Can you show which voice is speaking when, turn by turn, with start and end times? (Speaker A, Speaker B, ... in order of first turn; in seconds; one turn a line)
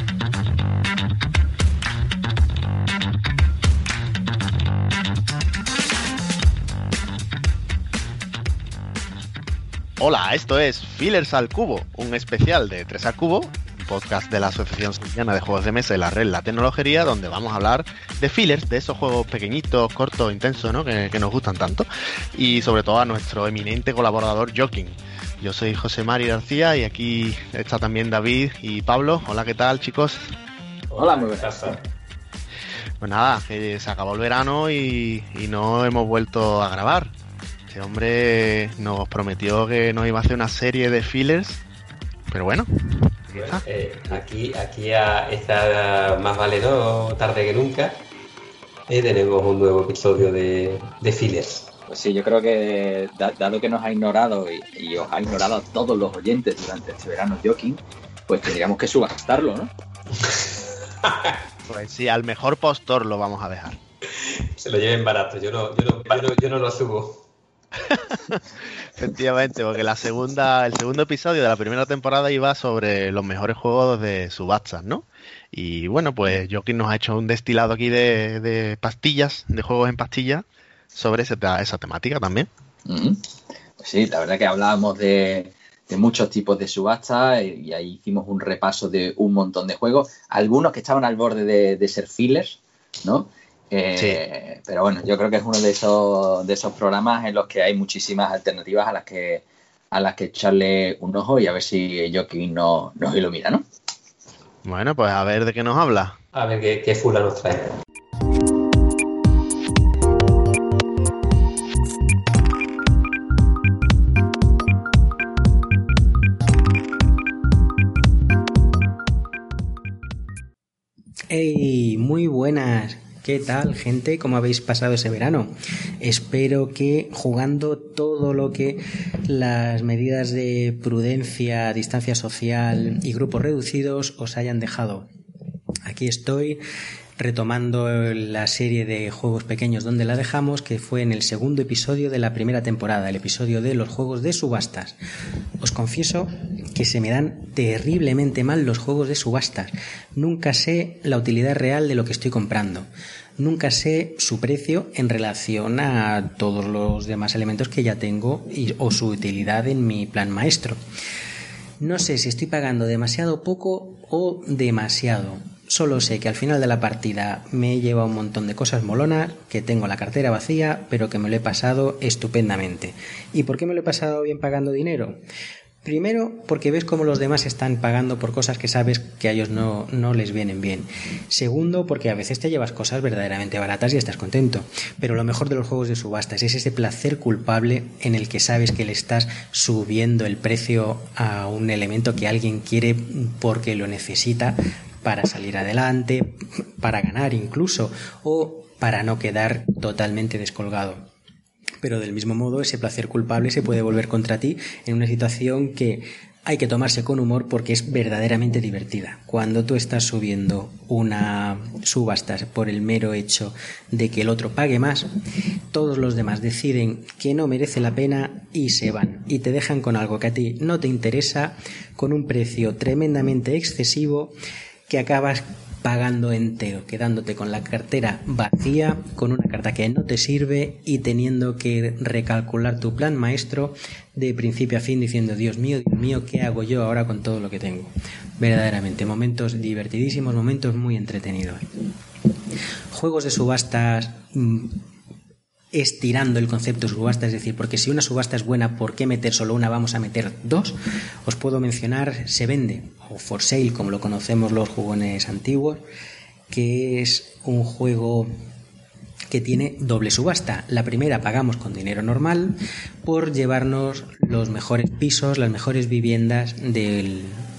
Speaker A: 10.0-30.3
Speaker B: 30.9-31.8
Speaker C: 30.9-31.8
Speaker A: 33.0-37.1
Speaker A: 37.7-41.6
Speaker A: 42.3-43.6
Speaker B: 43.3-48.0
Speaker B: 48.9-51.7
Speaker C: 51.9-59.7
Speaker A: 61.7-63.8
Speaker B: 64.2-67.2
Speaker A: 67.9-68.4
Speaker A: 69.0-82.5
Speaker C: 82.8-83.2
Speaker C: 83.8-103.6
Speaker A: 93.9-94.2
Speaker A: 104.6-106.2
Speaker B: 106.3-107.8
Speaker D: 121.3-135.1
Speaker D: 135.8-136.6
Speaker D: 137.2-145.0
Speaker D: 145.6-152.9
Speaker D: 153.4-160.8
Speaker D: 161.8-175.2
Speaker D: 175.8-201.1
Speaker D: 201.8-215.1
Speaker D: 215.7-224.3
Speaker D: 224.9-241.6
Speaker D: 242.9-244.8
Speaker D: 245.7-255.8
Speaker D: 256.5-258.3
Speaker D: 259.3-267.4